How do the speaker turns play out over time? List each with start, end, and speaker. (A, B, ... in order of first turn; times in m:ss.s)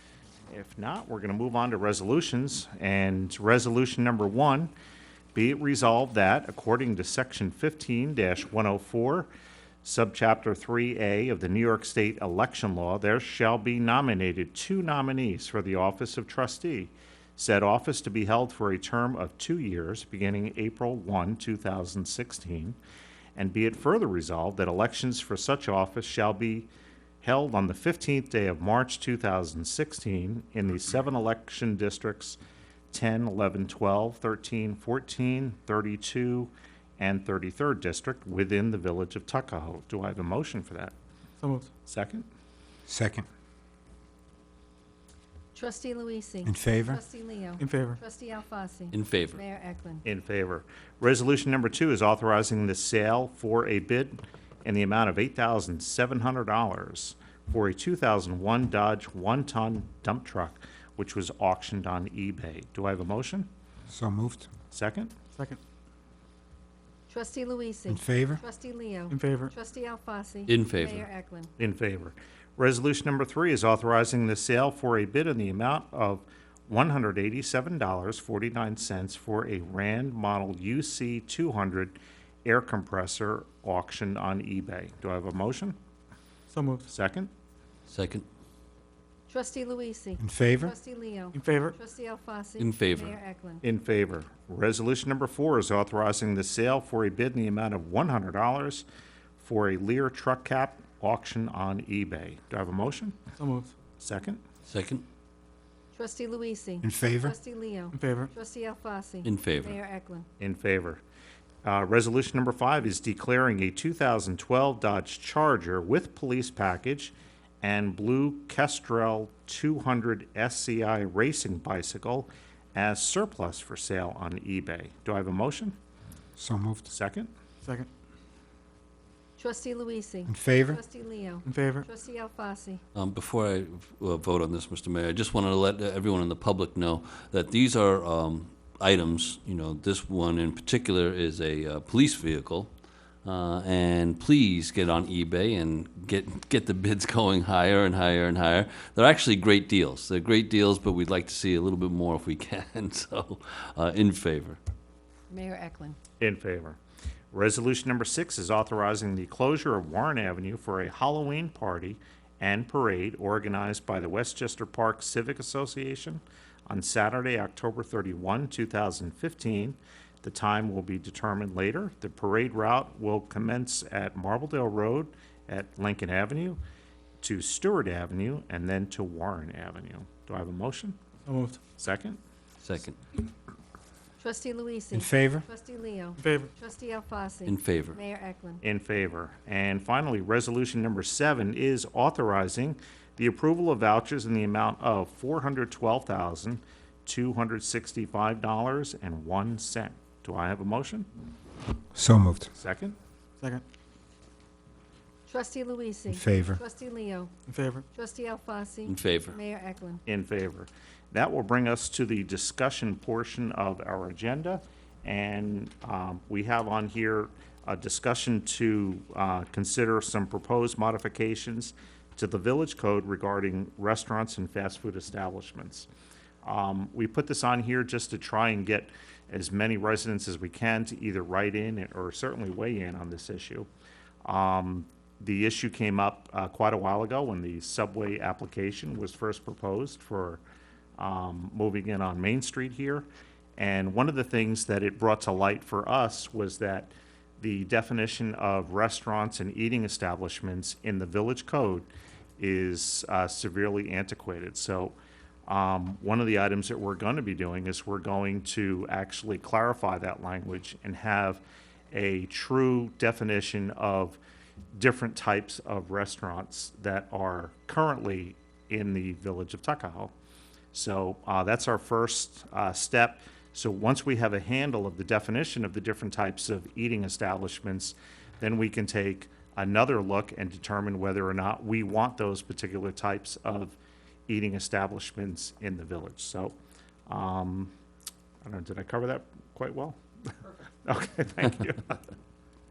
0:00.5-0:04.7 A
0:05.3-0:09.3 A
0:09.8-0:22.8 A
0:23.4-0:26.7 A
0:27.2-0:32.4 A
0:32.9-0:40.9 A
0:41.4-0:41.7 B
0:41.8-0:42.3 A
0:42.9-0:43.3 C
0:45.5-0:50.0 D
0:46.4-0:47.0 C
0:47.6-0:48.0 B
0:48.9-0:49.4 E
0:50.0-1:03.5 A
1:03.9-1:04.5 C
1:04.7-1:05.1 A
1:05.3-1:05.6 B
1:07.1-1:11.5 D
1:07.9-1:08.4 C
1:09.1-1:09.5 B
1:10.5-1:11.1 E
1:11.6-1:25.8 A
1:26.5-1:26.9 B
1:26.9-1:27.3 A
1:27.9-1:28.2 E
1:29.3-1:33.6 D
1:30.2-1:30.7 C
1:31.3-1:31.8 B
1:32.6-1:33.2 E
1:33.6-1:38.9 A
1:39.4-1:43.2 A
1:43.4-1:43.7 B
1:44.0-1:44.4 A
1:44.7-1:45.0 E
1:45.9-1:50.3 D
1:46.8-1:47.3 C
1:47.9-1:48.3 B
1:49.2-1:49.8 E
1:50.4-1:51.0 A
1:51.6-2:05.8 A
2:06.4-2:06.9 C
2:06.9-2:07.3 A
2:07.6-2:07.9 B
2:09.4-2:12.8 D
2:10.3-2:10.8 C
2:11.4-2:11.9 B
2:13.0-2:22.7 E
2:23.2-2:34.6 E
2:35.3-2:36.0 D
2:36.2-2:36.8 A
2:37.3-2:56.6 A
2:57.2-3:01.0 A
3:01.3-3:01.6 B
3:01.7-3:02.2 A
3:02.6-3:03.0 E
3:04.2-3:08.6 D
3:04.9-3:05.4 C
3:06.2-3:06.5 B
3:07.5-3:08.0 E
3:08.6-3:21.1 A
3:21.9-3:22.5 C
3:22.6-3:23.0 A
3:25.3-3:27.3 D
3:26.1-3:26.6 C
3:27.5-3:27.9 B
3:27.9-3:30.0 D
3:28.9-3:29.4 E
3:30.1-3:45.9 A
3:46.4-3:53.7 A
3:54.2-4:00.4 A
4:01.0-4:03.1 A
4:03.6-4:15.0 A
4:15.5-4:24.2 A
4:24.8-4:30.1 A
4:30.7-4:43.8 A
4:44.3-4:46.6 A
4:47.1-4:47.7 A
4:48.4-4:50.0 A
4:50.8-4:52.0 A